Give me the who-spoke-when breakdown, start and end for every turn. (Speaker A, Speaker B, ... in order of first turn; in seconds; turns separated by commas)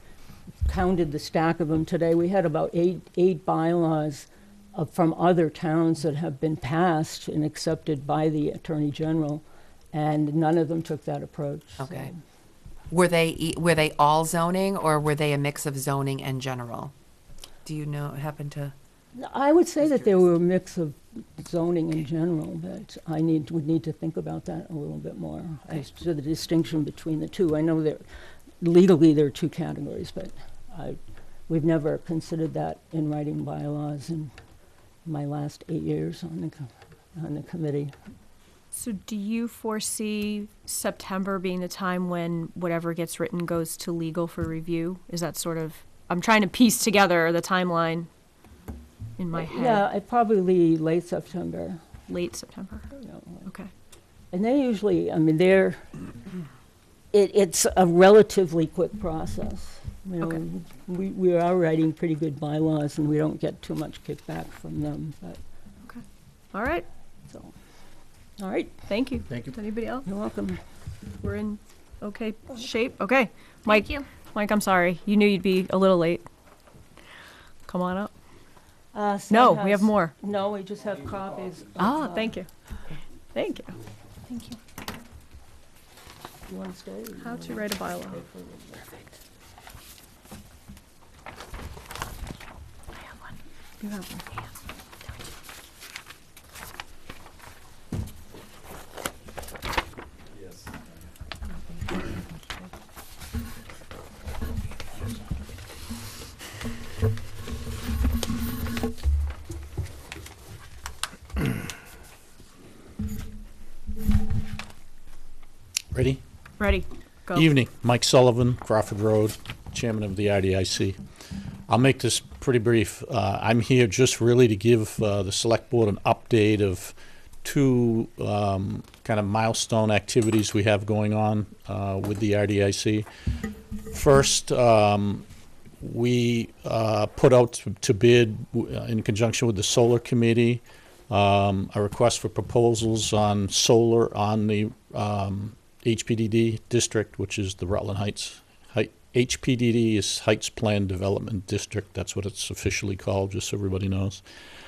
Speaker A: 0.7-12.2, Speaker B: 11.8-12.1, Speaker B: 12.9-16.9, Speaker B: 17.6-18.7, Speaker A: 19.1-28.0, Speaker A: 28.6-34.3, Speaker A: 35.0-37.9, Speaker C: 38.7-48.1, Speaker C: 49.2-49.8, Speaker A: 49.3-51.9, Speaker C: 52.1-52.9, Speaker A: 52.9-53.5, Speaker A: 54.3-56.0, Speaker A: 57.1-65.4, Speaker C: 66.5-66.8, Speaker A: 68.4-68.8, Speaker C: 68.9-70.0, Speaker A: 70.0-70.6, Speaker C: 71.2-76.2, Speaker C: 77.7-78.1, Speaker A: 78.9-82.4, Speaker C: 79.3-80.1, Speaker C: 81.8-82.5, Speaker C: 83.3-83.8, Speaker A: 86.5-89.0, Speaker C: 87.2-88.2, Speaker C: 93.8-94.5, Speaker D: 115.9-116.2, Speaker C: 116.6-117.5, Speaker D: 117.3-121.0, Speaker D: 121.7-133.1, Speaker D: 133.9-135.2, Speaker D: 135.8-154.2